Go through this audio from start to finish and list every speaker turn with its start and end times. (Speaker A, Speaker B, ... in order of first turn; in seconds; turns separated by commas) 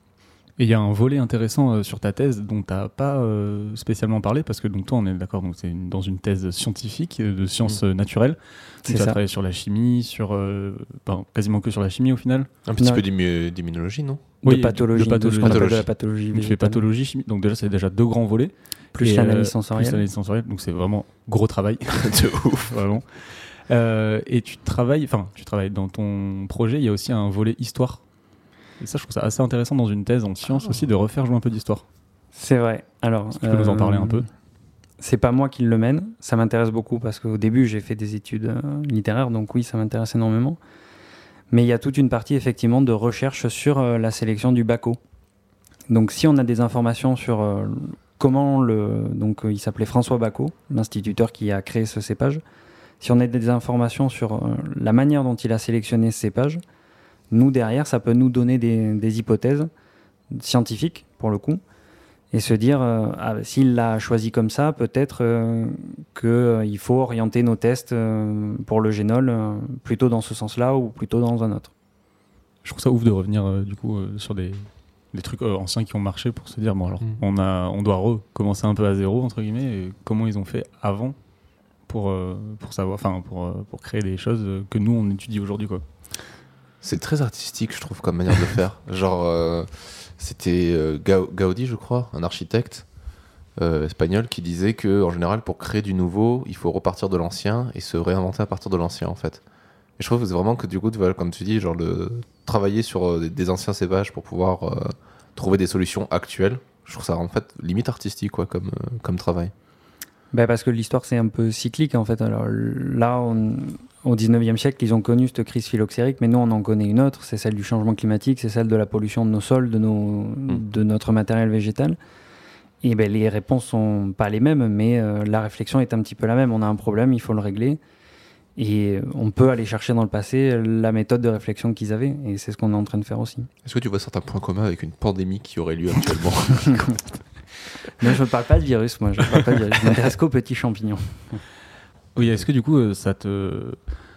Speaker A: 0.6-12.5, Speaker B: 8.8-9.2, Speaker C: 12.7-14.3, Speaker B: 12.8-13.0, Speaker B: 14.4-16.8, Speaker A: 14.4-28.0, Speaker C: 15.4-15.8, Speaker B: 18.9-20.0, Speaker C: 21.9-22.8, Speaker A: 28.8-31.8, Speaker B: 32.3-34.2, Speaker A: 33.3-34.2, Speaker B: 35.0-40.6, Speaker B: 41.5-45.0, Speaker B: 45.9-52.4, Speaker B: 53.0-56.6, Speaker B: 57.3-59.7, Speaker B: 60.3-61.6, Speaker B: 62.3-71.7, Speaker A: 72.6-81.2, Speaker A: 81.9-85.8, Speaker C: 86.8-92.8, Speaker C: 93.6-99.4, Speaker C: 100.0-109.5, Speaker B: 110.3-122.0, Speaker B: 122.8-127.8, Speaker B: 128.6-133.5, Speaker C: 133.6-137.0, Speaker B: 138.0-141.4, Speaker A: 142.2-143.8